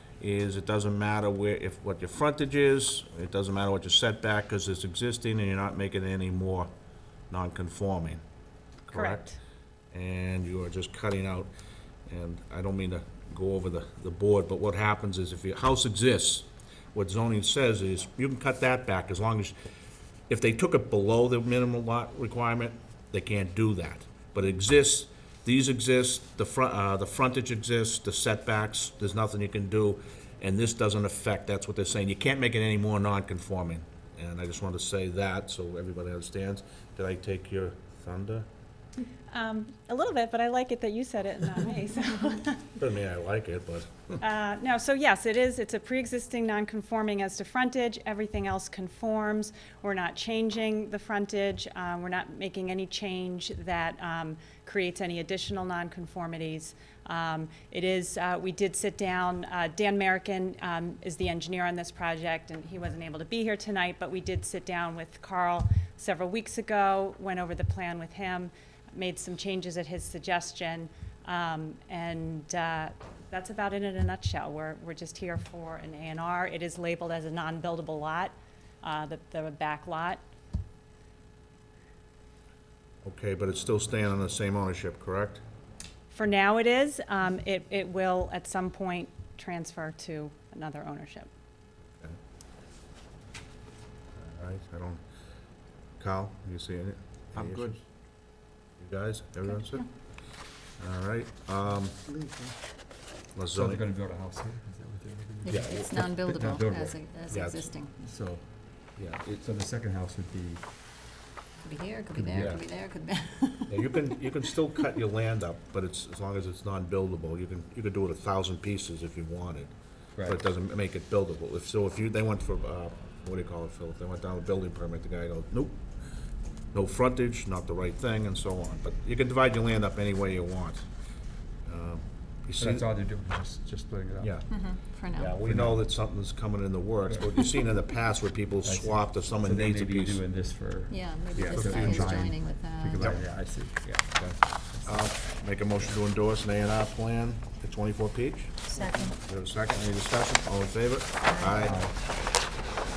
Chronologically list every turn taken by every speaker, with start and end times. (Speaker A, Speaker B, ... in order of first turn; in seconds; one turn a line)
Speaker A: 0.2-6.7
Speaker A: 7.3-8.2
Speaker A: 8.9-9.3
Speaker B: 8.9-9.4
Speaker A: 9.9-11.5
Speaker A: 12.1-19.5
Speaker A: 20.3-38.5
Speaker B: 39.3-42.7
Speaker A: 42.8-44.2
Speaker B: 44.2-80.2
Speaker A: 83.0-85.4
Speaker B: 86.1-91.3
Speaker A: 94.2-95.0
Speaker A: 96.0-97.8
Speaker C: 97.3-97.8
Speaker A: 98.8-99.9
Speaker A: 100.8-102.1
Speaker A: 103.3-103.8
Speaker C: 103.5-107.0
Speaker D: 105.4-107.9
Speaker A: 105.5-105.8
Speaker A: 107.3-107.7
Speaker C: 108.0-108.4
Speaker C: 109.0-110.6
Speaker D: 111.6-113.9
Speaker C: 112.1-112.6
Speaker A: 112.3-112.7
Speaker A: 113.7-119.7
Speaker A: 120.2-125.8
Speaker A: 126.7-130.8
Speaker A: 131.7-132.9
Speaker C: 132.6-134.4
Speaker A: 134.2-140.2
Speaker D: 134.5-135.4
Speaker C: 135.4-135.8
Speaker C: 138.6-144.2
Speaker D: 140.9-143.1
Speaker A: 141.5-142.2
Speaker A: 143.0-143.4
Speaker A: 144.2-151.8
Speaker D: 148.8-149.1
Speaker C: 151.6-151.9